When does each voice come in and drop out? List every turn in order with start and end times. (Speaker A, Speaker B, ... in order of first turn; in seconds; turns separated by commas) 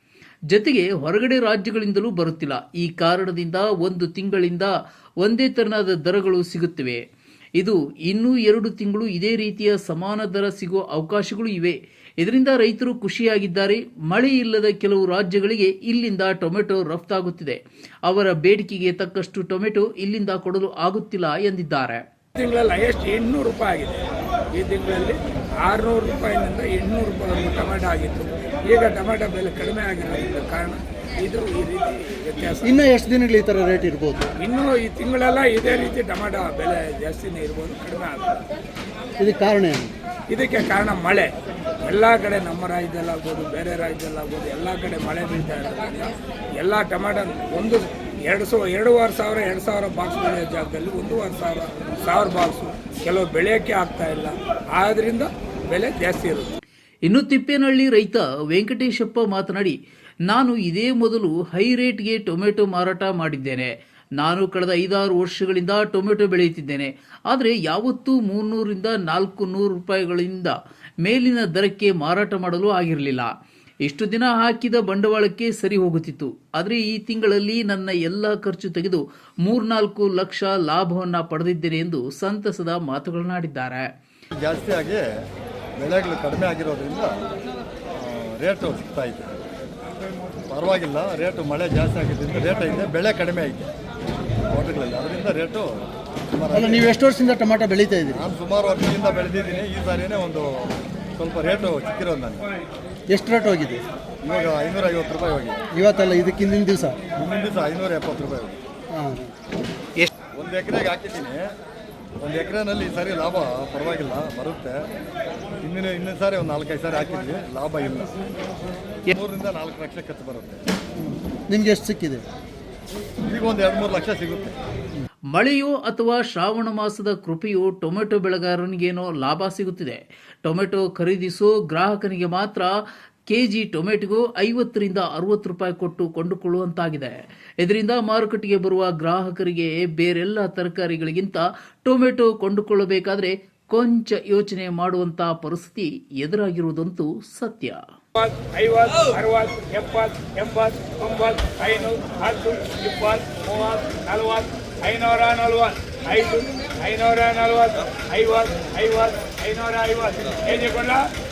Speaker A: 0.5-7.0, Speaker A: 7.6-22.0, Speaker B: 22.4-24.0, Speaker B: 24.6-32.7, Speaker C: 32.6-34.3, Speaker B: 34.4-38.4, Speaker C: 39.2-39.9, Speaker B: 40.3-41.3, Speaker B: 41.9-56.5, Speaker A: 57.1-59.8, Speaker A: 60.3-73.3, Speaker A: 73.8-83.9, Speaker D: 84.3-85.0, Speaker D: 85.8-87.2, Speaker D: 88.0-89.3, Speaker D: 90.5-93.7, Speaker D: 94.5-97.0, Speaker C: 96.5-98.2, Speaker D: 98.1-102.5, Speaker C: 103.1-103.8, Speaker D: 104.2-105.7, Speaker C: 105.7-107.0, Speaker D: 107.2-108.6, Speaker C: 108.9-109.3, Speaker D: 110.3-111.5, Speaker D: 112.2-114.8, Speaker D: 115.6-118.1, Speaker D: 119.1-120.6, Speaker C: 121.0-122.2, Speaker D: 123.3-124.6, Speaker A: 125.3-132.8, Speaker A: 133.3-147.8, Speaker B: 148.2-161.1